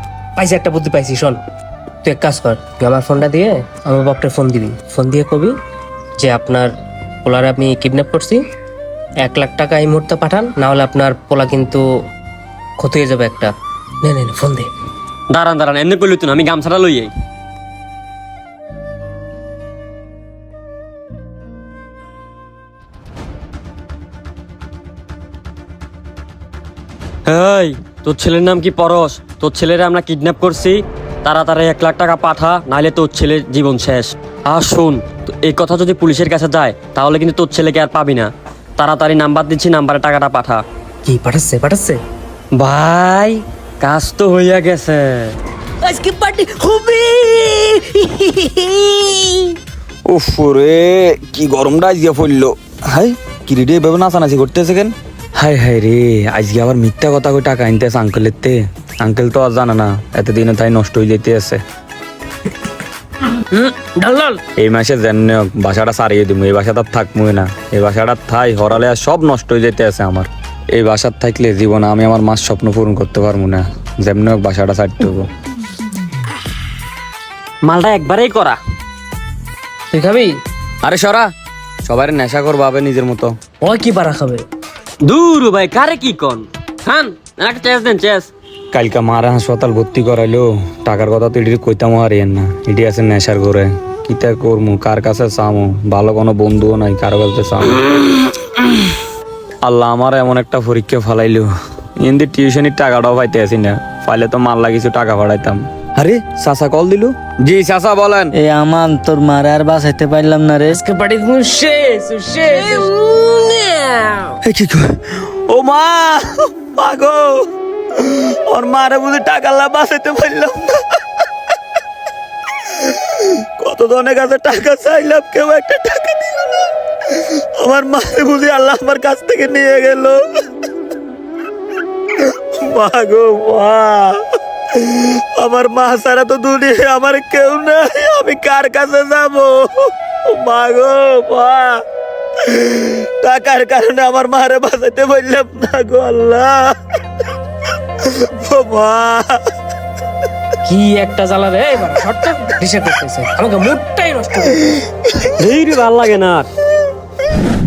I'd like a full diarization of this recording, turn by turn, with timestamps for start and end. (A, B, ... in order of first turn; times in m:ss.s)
0:00.4-0:01.4 A
0:02.0-0:05.6 A
0:06.2-0:06.7 A
0:07.2-0:08.4 A
0:09.2-0:11.9 A
0:12.8-0:14.7 A
0:15.3-0:17.1 B
0:27.3-0:40.6 B
0:41.0-0:42.0 A
0:42.6-0:45.4 B
0:45.8-0:49.5 A
0:50.1-1:01.6 C
1:03.4-1:04.4 A
1:04.6-1:15.3 C
1:17.6-1:18.6 B
1:19.9-1:20.4 A
1:20.8-1:21.3 C
1:21.8-1:23.3 C
1:23.6-1:24.4 A
1:25.0-1:28.3 B
1:28.7-1:37.8 C
1:39.6-1:41.5 C
1:42.0-1:48.3 C
1:48.3-1:50.8 D
1:50.7-1:54.3 A
1:54.4-1:57.4 C
1:58.0-2:01.0 C
2:03.2-2:10.2 C
2:12.5-2:14.2 C
2:14.8-2:21.8 C
2:22.5-2:26.8 C
2:28.0-2:29.4 C
2:30.7-2:34.8 A
2:35.4-2:36.5 B